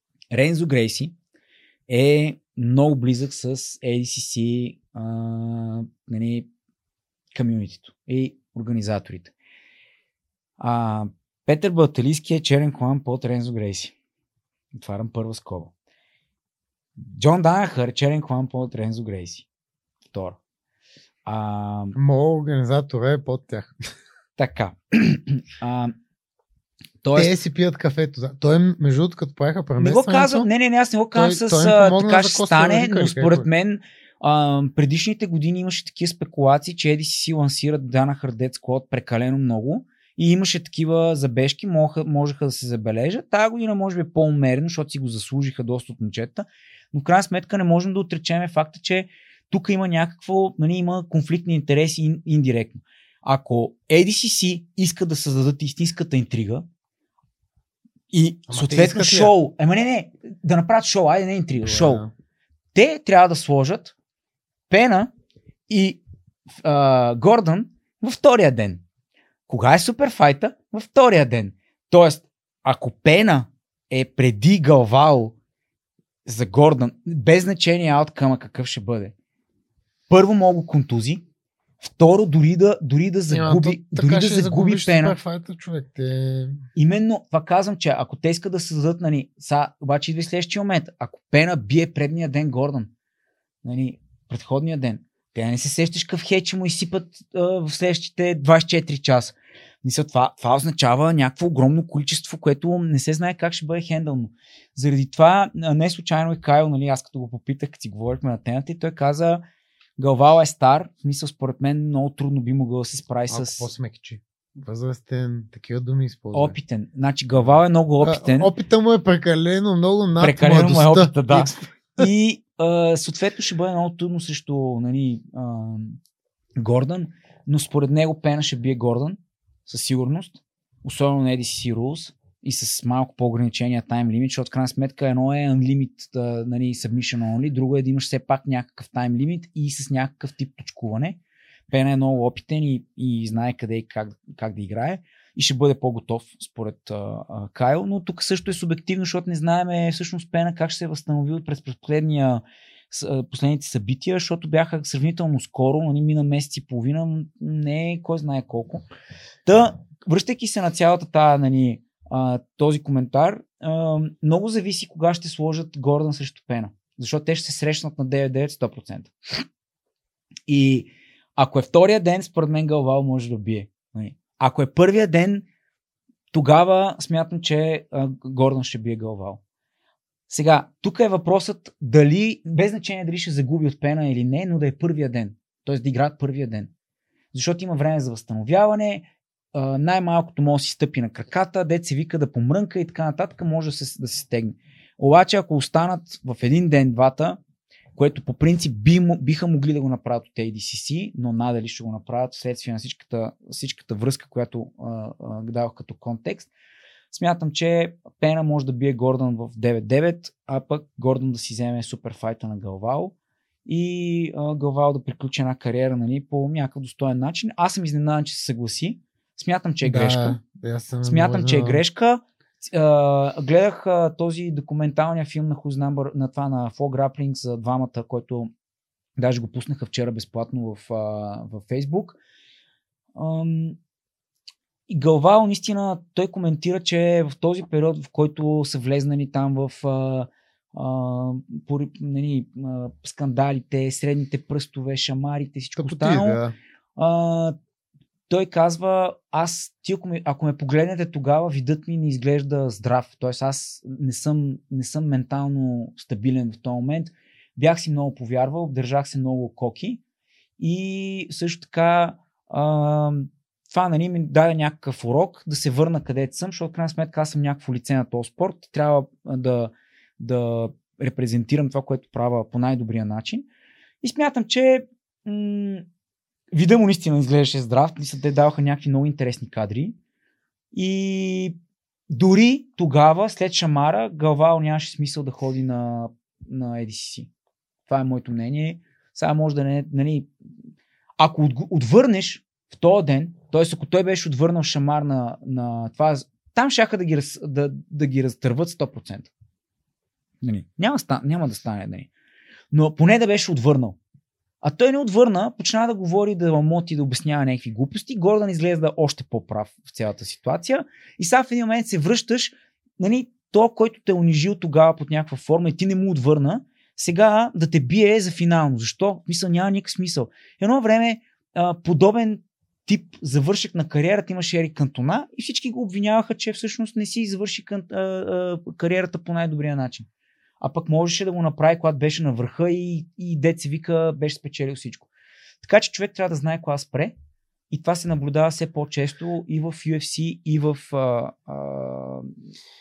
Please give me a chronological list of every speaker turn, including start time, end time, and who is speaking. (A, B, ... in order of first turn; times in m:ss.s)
0:00.3-0:01.1 A
0:01.9-0:06.5 A
0:07.3-0:09.3 A
0:10.6-0:13.9 A
0:14.7-0:15.7 A
0:17.1-0:19.4 A
0:20.1-0:20.4 A
0:21.2-0:22.0 A
0:21.9-0:23.8 B
0:24.4-0:25.9 A
0:27.0-0:27.3 A
0:27.1-0:30.5 B
0:29.8-0:56.6 A
0:31.1-0:33.5 B
0:58.1-1:02.0 A
0:58.5-0:59.3 B
1:01.6-1:02.1 B
1:02.7-1:03.9 A
1:04.7-1:05.1 A
1:05.7-1:06.0 A
1:06.6-1:08.8 A
1:09.5-1:15.3 A
1:16.2-1:19.1 A
1:20.1-1:21.2 A
1:21.8-1:25.2 A
1:23.3-1:26.6 B
1:26.7-1:32.9 A
1:33.6-1:49.4 A
1:50.0-1:53.7 A
1:53.3-1:56.6 B
1:56.3-1:58.5 A
1:58.0-2:02.1 B
2:00.2-2:06.0 A
2:06.6-2:21.2 A
2:21.7-2:38.8 A
2:39.4-2:49.4 A
2:50.5-2:55.4 A
2:56.3-2:59.4 A
3:00.3-3:06.7 A
3:07.3-3:17.4 A
3:18.0-3:26.5 A
3:27.1-3:33.1 A
3:33.6-3:40.4 A
3:39.8-3:41.8 B
3:41.0-3:48.5 A
3:49.2-3:52.2 A
3:53.2-3:53.8 A
3:54.9-4:06.4 A
4:05.8-4:06.5 B
4:07.0-4:07.6 A
4:08.3-4:20.0 A
4:20.6-4:33.5 A
4:34.0-4:35.8 A
4:36.5-4:40.0 A
4:40.7-4:41.6 A
4:42.1-4:47.3 A
4:47.9-4:50.3 A
4:51.2-4:59.3 A
5:00.4-5:02.1 A
5:02.7-5:04.0 A
5:04.6-5:30.1 A
5:30.6-5:35.1 A
5:35.6-5:37.1 A
5:37.7-5:42.3 A